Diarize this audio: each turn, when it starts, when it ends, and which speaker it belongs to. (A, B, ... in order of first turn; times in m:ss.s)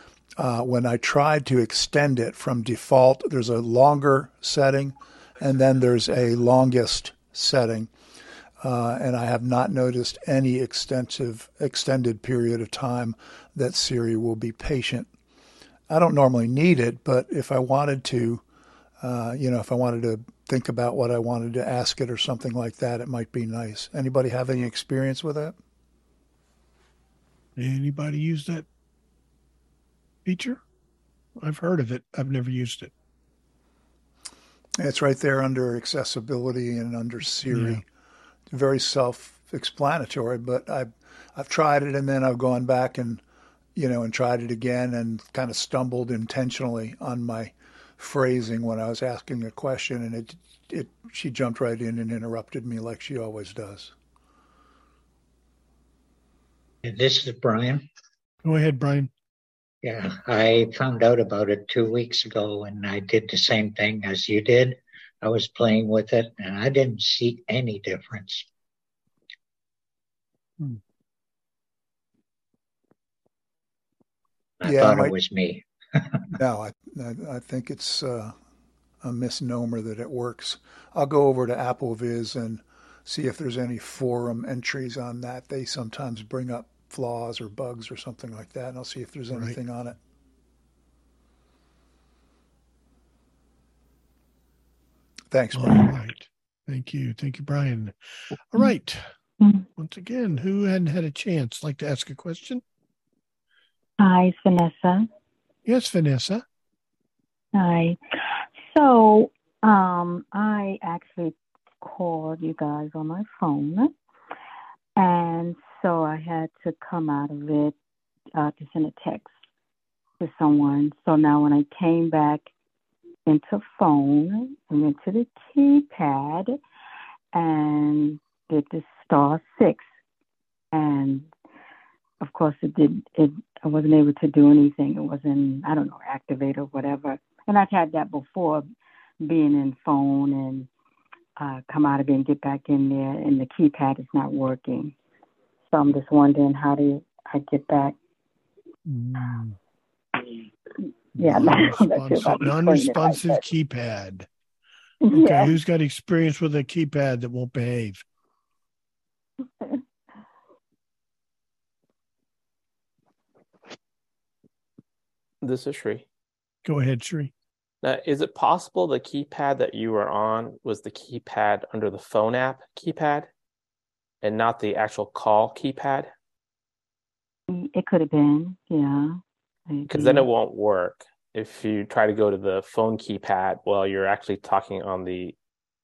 0:00.4-0:07.9 A
0:08.6-0:15.1 A
0:15.9-0:18.4 A
0:19.0-0:25.6 A
0:27.6-0:28.7 B
0:30.3-0:30.6 B
0:31.4-0:32.9 B
0:34.8-0:37.8 A
0:37.5-0:37.8 B
0:38.5-0:43.2 A
0:43.8-0:53.9 A
0:56.8-0:57.8 C
0:58.4-0:59.1 B
0:59.8-1:08.4 C
1:14.6-1:15.6 C
1:14.6-1:15.2 A
1:16.4-1:18.3 A
1:19.0-1:30.0 A
1:29.3-1:29.6 B
1:35.3-1:36.0 A
1:35.5-1:37.9 B
1:38.5-1:39.0 B
1:39.4-1:39.7 D
1:39.8-1:42.6 B
1:44.0-1:45.1 D
1:45.7-1:46.4 B
1:47.6-1:48.0 D
1:48.7-1:53.9 D
1:55.0-1:57.7 D
1:58.3-1:59.3 D
2:00.2-2:02.5 D
2:03.3-2:06.6 D
2:07.3-2:09.8 D
2:10.7-2:11.3 D
2:12.2-2:18.7 D
2:19.2-2:20.7 D
2:21.4-2:24.9 D
2:25.7-2:28.0 D
2:28.9-2:29.6 B
2:31.2-2:33.3 D
2:31.2-2:34.3 B
2:35.1-2:38.0 B
2:35.1-2:35.5 D
2:45.4-2:46.1 E
2:46.6-2:47.3 B
2:47.8-2:53.3 E
2:54.2-2:56.1 E
2:57.5-3:00.3 D
2:59.9-3:05.4 E